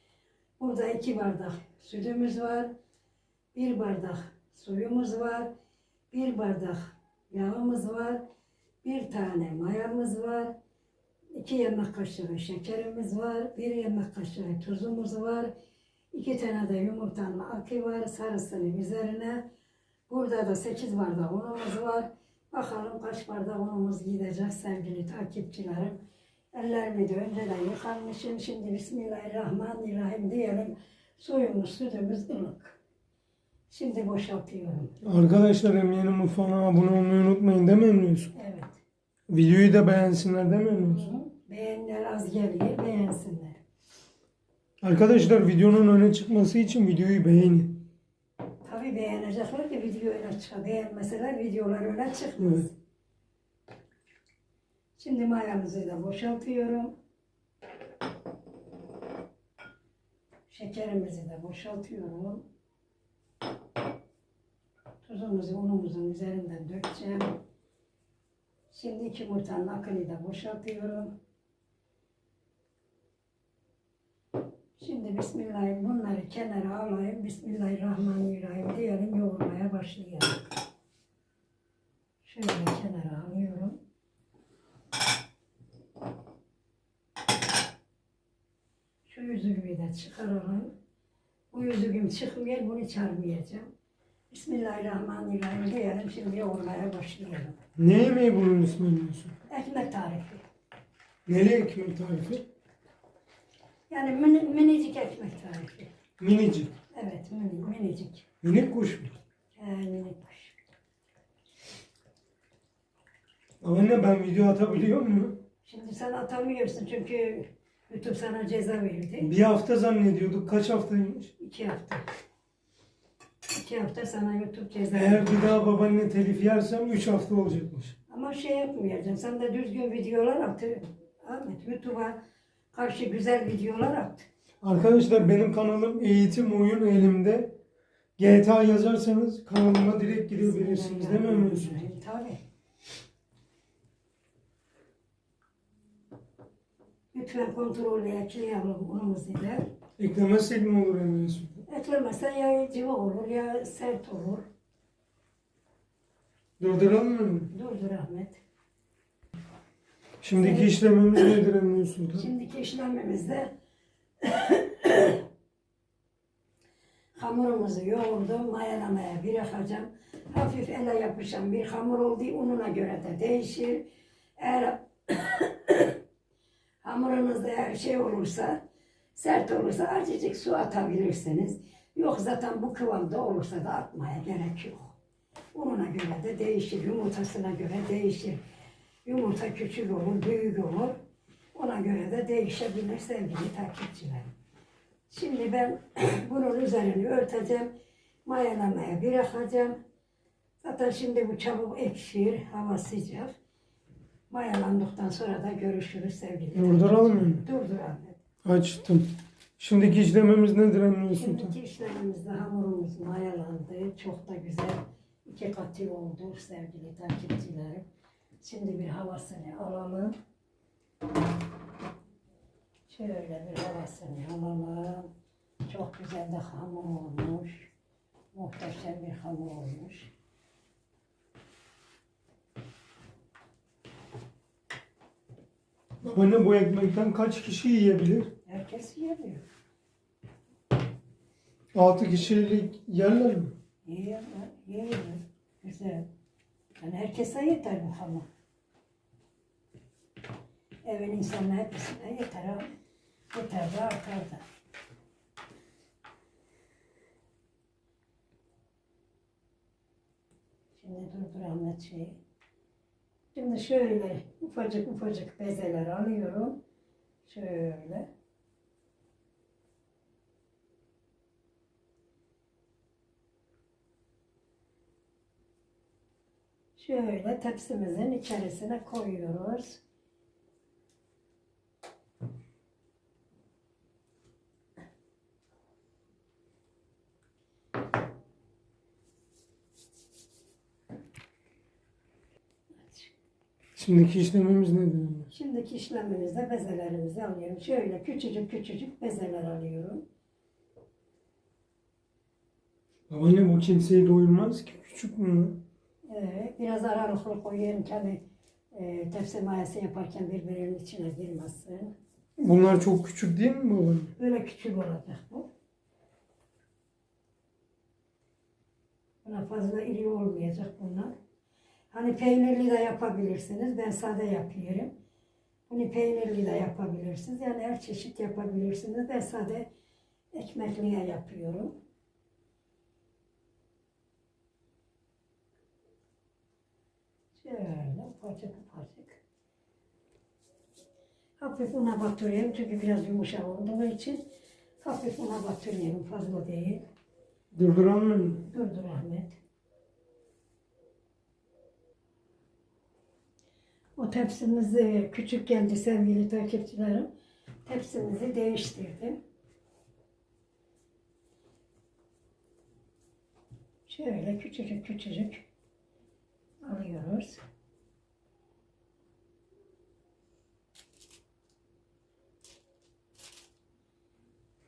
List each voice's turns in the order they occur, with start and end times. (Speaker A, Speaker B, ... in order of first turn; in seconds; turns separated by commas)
Speaker A: 0.6-2.7, Speaker A: 3.5-5.5, Speaker A: 6.1-8.2, Speaker A: 8.8-10.5, Speaker A: 11.3-15.5, Speaker A: 16.1-19.4, Speaker A: 20.1-26.0, Speaker A: 26.5-32.8, Speaker A: 33.7-35.0, Speaker B: 35.0-38.3, Speaker A: 38.3-38.8, Speaker B: 39.3-41.1, Speaker A: 40.9-43.6, Speaker B: 44.8-47.8, Speaker A: 48.6-52.8, Speaker B: 52.4-52.7, Speaker A: 55.0-57.0, Speaker A: 60.5-62.4, Speaker A: 65.0-67.4, Speaker A: 68.7-71.2, Speaker A: 74.8-80.5, Speaker A: 82.2-83.8, Speaker A: 89.1-90.8, Speaker A: 91.5-93.7, Speaker A: 94.3-97.6, Speaker B: 97.8-99.3, Speaker A: 99.5-100.4, Speaker B: 101.2-102.4, Speaker A: 103.9-105.9, Speaker B: 106.2-106.7, Speaker A: 106.9-108.2, Speaker B: 108.4-109.2, Speaker A: 109.6-110.6, Speaker B: 113.6-115.4, Speaker A: 115.6-119.3, Speaker B: 119.2-121.3, Speaker A: 121.4-122.0, Speaker A: 123.5-125.5, Speaker B: 124.9-128.0, Speaker A: 128.1-132.2, Speaker A: 132.7-134.3, Speaker B: 134.6-137.6, Speaker B: 138.2-141.9, Speaker A: 140.3-142.4, Speaker A: 147.1-149.7, Speaker B: 150.0-151.6, Speaker A: 151.7-154.5, Speaker B: 156.6-157.5, Speaker A: 157.5-158.4, Speaker B: 160.2-162.3, Speaker A: 160.4-160.8, Speaker A: 162.1-163.5, Speaker A: 164.2-165.2, Speaker A: 167.2-173.8, Speaker A: 174.4-176.0, Speaker A: 176.8-178.6, Speaker A: 179.2-184.9, Speaker A: 185.5-188.4, Speaker A: 189.1-191.0, Speaker A: 191.5-194.3, Speaker A: 195.1-197.7, Speaker A: 198.2-199.8, Speaker A: 200.6-203.3, Speaker A: 204.3-208.2, Speaker B: 206.5-207.4, Speaker B: 208.4-211.5, Speaker A: 211.2-217.8, Speaker A: 218.4-220.1, Speaker A: 222.9-225.1, Speaker A: 225.7-227.7, Speaker A: 228.3-230.1, Speaker B: 236.0-238.3, Speaker A: 238.5-239.4, Speaker B: 241.7-243.5, Speaker A: 243.8-246.1, Speaker A: 246.8-248.3, Speaker A: 250.8-252.8, Speaker A: 253.3-254.4, Speaker A: 260.8-262.2, Speaker A: 263.3-266.6, Speaker A: 267.2-268.1, Speaker A: 276.8-279.8, Speaker A: 292.8-293.1, Speaker B: 293.8-295.3, Speaker A: 295.3-300.0, Speaker B: 303.1-305.6, Speaker A: 306.1-308.2, Speaker A: 308.7-311.9, Speaker B: 312.4-314.1, Speaker A: 314.2-315.5, Speaker A: 319.2-321.1, Speaker A: 321.9-324.9, Speaker A: 325.7-329.7, Speaker A: 330.3-331.8, Speaker A: 337.3-339.2, Speaker A: 341.4-344.2, Speaker A: 344.8-346.8, Speaker B: 347.5-348.4, Speaker A: 348.4-349.4, Speaker A: 354.0-357.1, Speaker A: 357.6-359.2, Speaker A: 363.9-365.4, Speaker A: 366.6-367.4